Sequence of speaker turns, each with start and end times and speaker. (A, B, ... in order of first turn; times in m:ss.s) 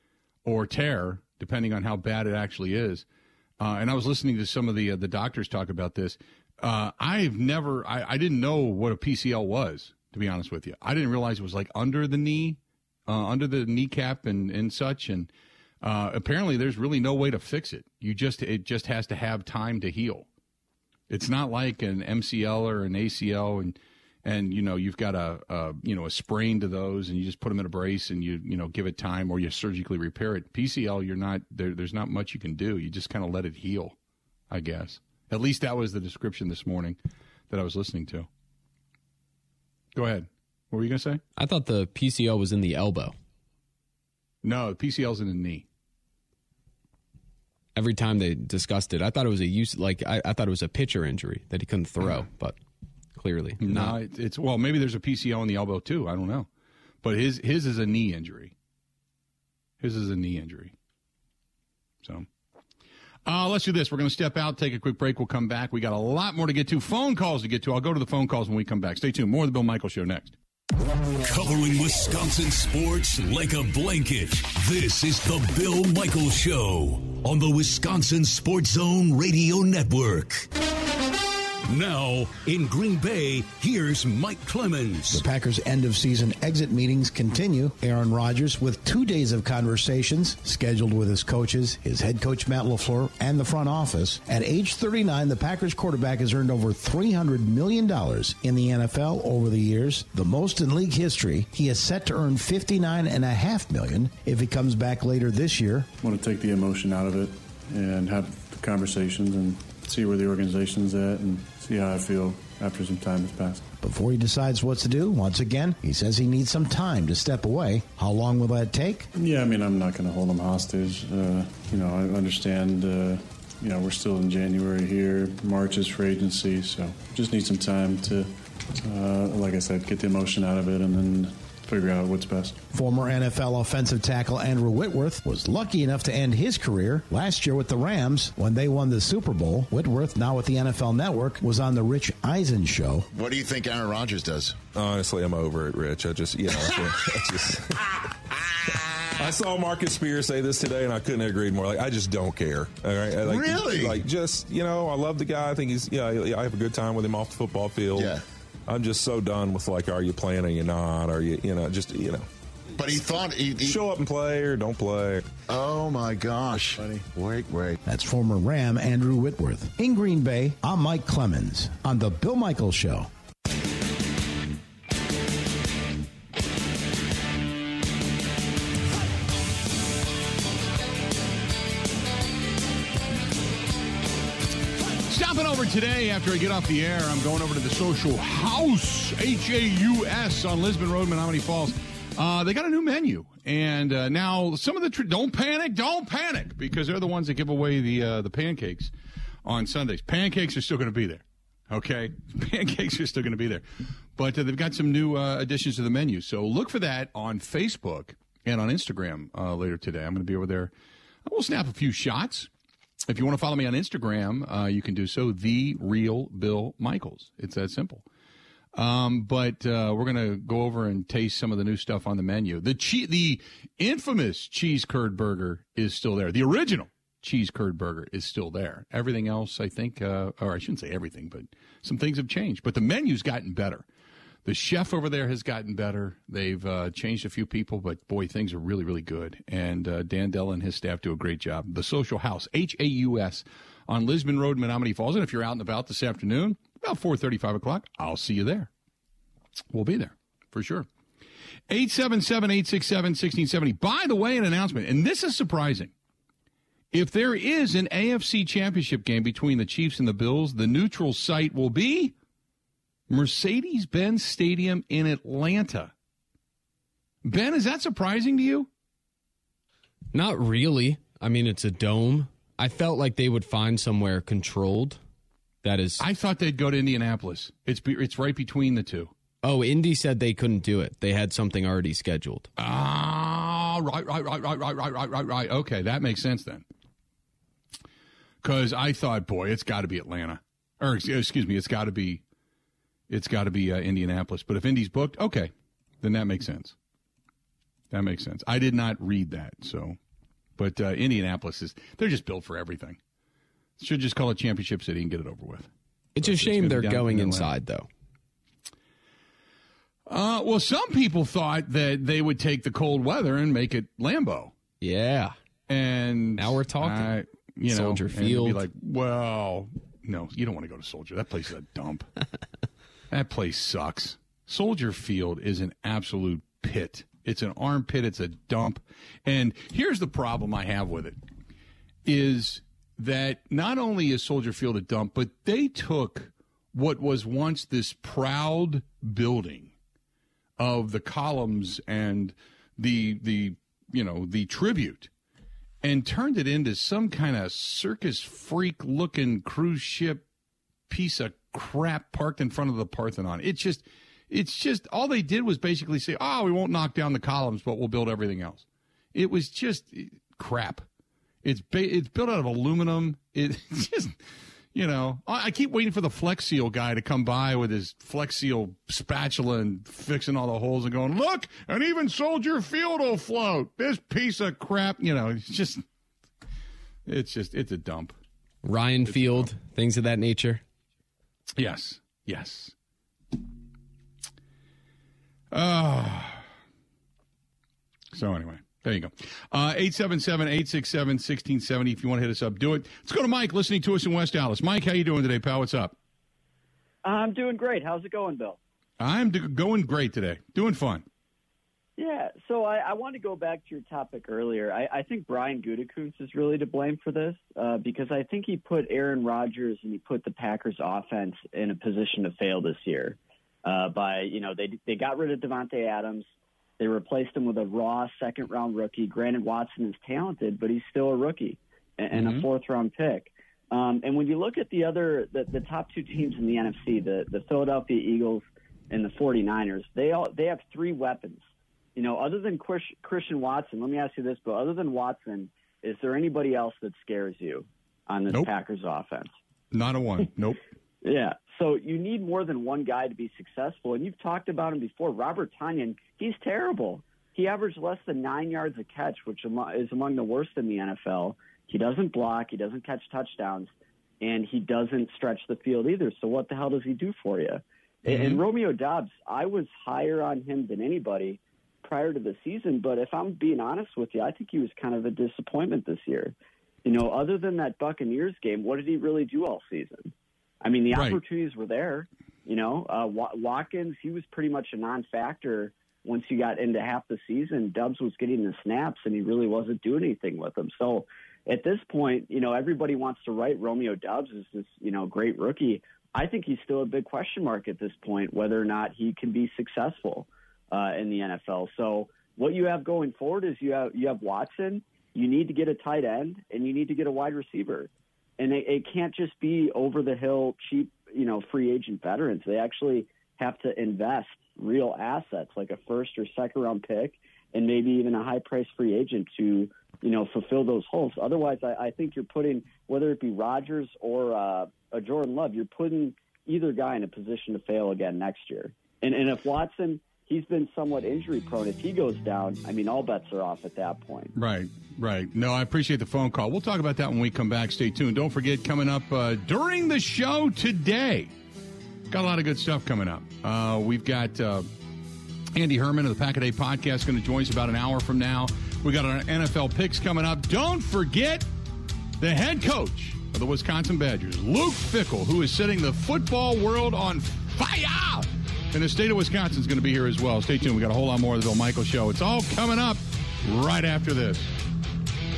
0:00.4-0:03.0 A
0:03.6-0:15.3 A
0:15.8-0:20.3 A
0:21.1-0:34.0 A
0:34.5-0:37.0 A
0:37.5-0:38.3 A
0:39.9-0:41.2 A
0:41.4-0:43.1 B
0:44.4-0:45.6 A
0:47.7-0:52.6 B
0:53.1-0:54.0 B
0:53.6-0:56.5 A
0:57.0-0:58.5 A
0:59.8-1:00.7 A
1:03.2-1:10.4 A
1:11.3-1:20.5 C
1:21.7-1:25.2 C
1:25.1-1:45.9 D
1:46.0-1:53.6 E
1:53.8-1:59.1 D
1:59.1-2:12.6 E
2:12.7-2:23.1 D
2:23.1-2:24.6 F
2:24.7-2:27.8 G
2:29.2-2:38.1 G
2:33.2-2:34.0 F
2:38.0-2:38.2 F
2:38.7-2:42.2 G
2:42.8-2:43.8 F
2:43.6-2:45.4 G
2:45.5-2:47.8 F
2:47.8-2:53.1 D
3:05.1-3:18.9 A
3:19.4-3:23.6 A
3:24.2-3:30.7 A
3:31.2-3:32.5 A
3:33.1-3:38.0 A
3:38.7-3:53.8 A
3:54.4-4:08.7 A
4:09.7-4:10.9 A
4:11.7-4:15.9 A
4:16.9-4:22.1 A
4:23.1-4:25.9 A
4:27.2-4:28.7 A
4:30.1-4:35.0 B
4:35.6-4:36.0 B
4:36.0-4:39.1 A
4:39.4-4:42.5 B
4:42.6-4:46.6 A
4:48.4-4:52.2 A
4:53.1-4:56.8 A
4:57.9-5:00.0 A
5:00.6-5:03.0 A
5:03.8-5:07.5 A
5:06.1-5:07.9 B
5:10.1-5:14.5 A
5:14.8-5:15.3 B
5:15.7-5:22.1 A
5:16.4-5:17.1 B
5:17.7-5:18.6 B
5:23.1-5:31.2 A
5:32.0-5:39.7 A
5:40.6-5:45.1 A
5:45.8-5:50.2 A
5:50.9-6:00.8 A
6:01.4-6:04.2 A
6:04.7-6:15.8 A
6:17.0-6:18.2 A
6:18.6-6:20.6 B
6:19.0-6:19.5 A
6:21.6-6:22.7 A
6:25.5-6:26.4 A
6:28.1-6:36.0 A
6:37.0-6:38.6 H
6:39.0-6:41.0 A
6:42.0-6:56.2 H
6:56.8-7:11.4 H
7:02.1-7:02.4 A
7:12.0-7:19.3 H
7:19.7-7:20.6 A
7:21.0-7:33.7 H
7:34.2-8:44.3 H
7:38.0-7:38.4 A
7:50.9-7:51.2 A
8:44.3-8:51.3 A
8:52.1-8:54.7 A
8:55.5-9:01.5 A
9:02.2-9:14.5 A